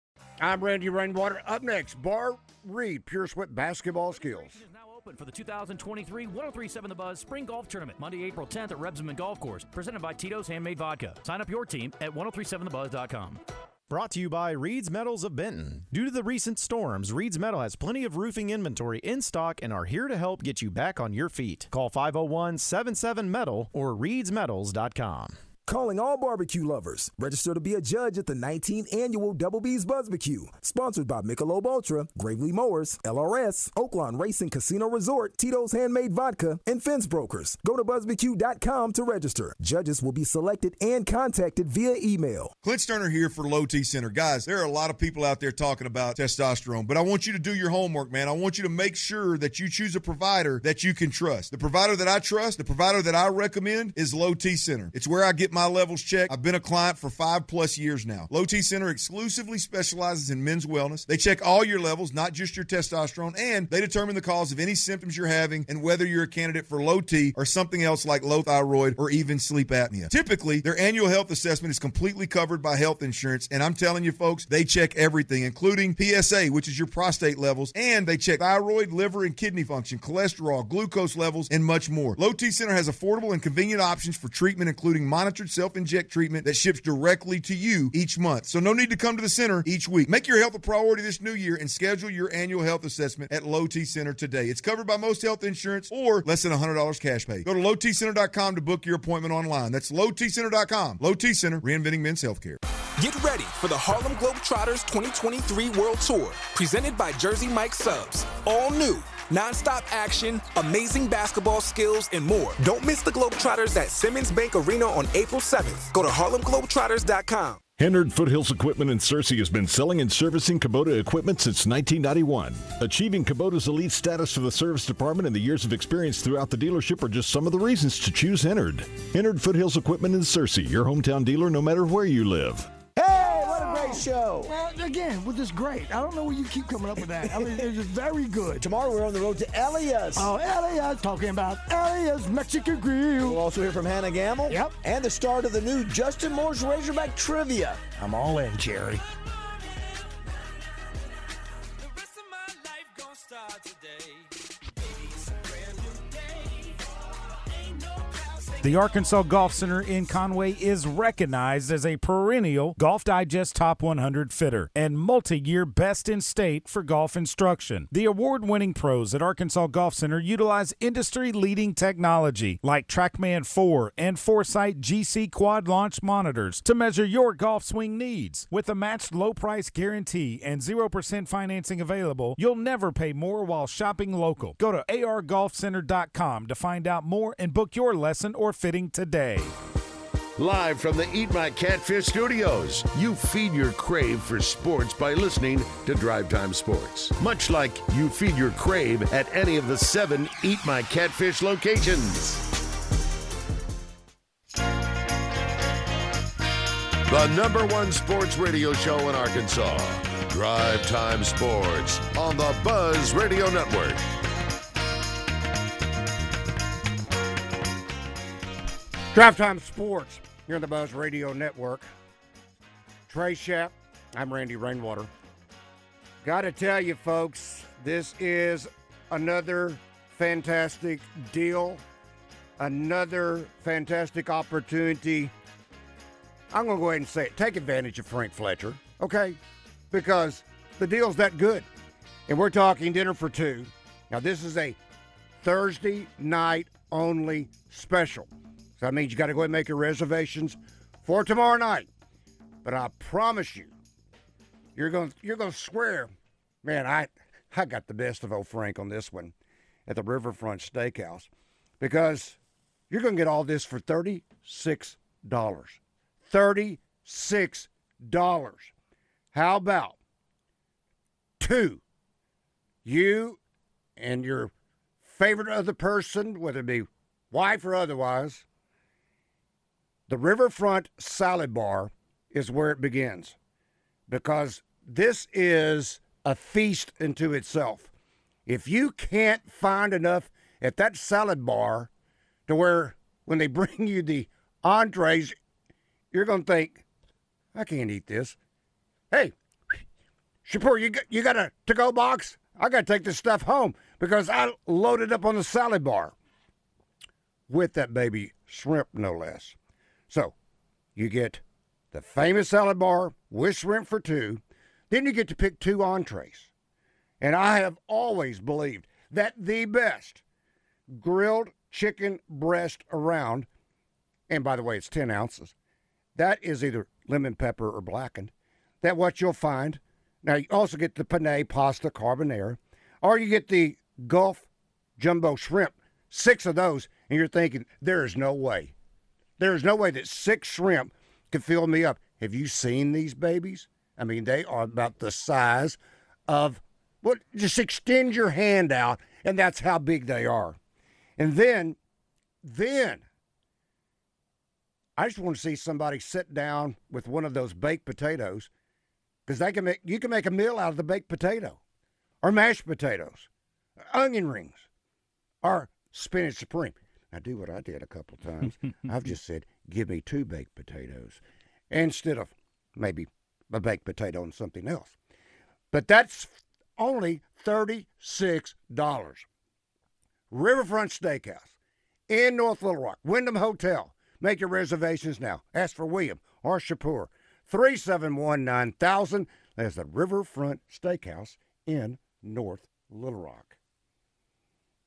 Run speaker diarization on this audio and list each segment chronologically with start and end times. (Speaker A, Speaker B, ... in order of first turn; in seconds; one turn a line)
Speaker A: 0.4-4.6
Speaker B: 4.2-13.4
Speaker C: 13.9-25.4
Speaker D: 25.7-42.5
Speaker E: 42.6-102.6
Speaker F: 103.0-117.6
Speaker G: 117.8-132.8
Speaker H: 132.9-134.6
Speaker I: 133.4-138.6
Speaker H: 137.1-137.6
Speaker H: 138.5-140.3
Speaker I: 140.2-143.4
Speaker H: 143.2-147.8
Speaker I: 144.5-144.7
Speaker I: 148.0-149.0
Speaker J: 158.6-189.5
Speaker K: 190.4-202.5
Speaker K: 207.1-214.0
Speaker A: 219.1-221.9
Speaker A: 223.1-225.1
Speaker A: 226.2-231.8
Speaker A: 232.6-235.3
Speaker A: 236.5-239.4
Speaker A: 239.9-241.7
Speaker A: 242.3-244.8
Speaker A: 245.4-251.9
Speaker A: 252.6-253.7
Speaker A: 254.8-256.1
Speaker A: 256.6-259.3
Speaker A: 259.9-262.4
Speaker A: 262.9-268.7
Speaker A: 269.3-270.0
Speaker A: 271.4-271.8
Speaker A: 272.9-273.4
Speaker A: 274.0-278.4
Speaker A: 280.1-283.4
Speaker A: 284.1-287.9
Speaker A: 288.5-291.9
Speaker A: 292.5-295.4
Speaker A: 296.1-296.8
Speaker A: 297.5-298.4
Speaker A: 299.1-299.8
Speaker A: 300.4-306.1
Speaker A: 307.5-309.6
Speaker A: 310.1-310.3
Speaker A: 311.0-316.5
Speaker A: 317.2-320.2
Speaker A: 320.9-323.5
Speaker A: 324.3-325.5
Speaker A: 326.2-338.7
Speaker A: 339.4-350.6
Speaker A: 351.2-351.8
Speaker A: 352.4-353.0
Speaker A: 355.0-358.5
Speaker A: 359.3-361.6
Speaker A: 362.2-363.3
Speaker A: 363.8-364.7
Speaker A: 365.4-374.9
Speaker A: 375.7-379.3
Speaker A: 380.3-381.5
Speaker A: 382.1-393.6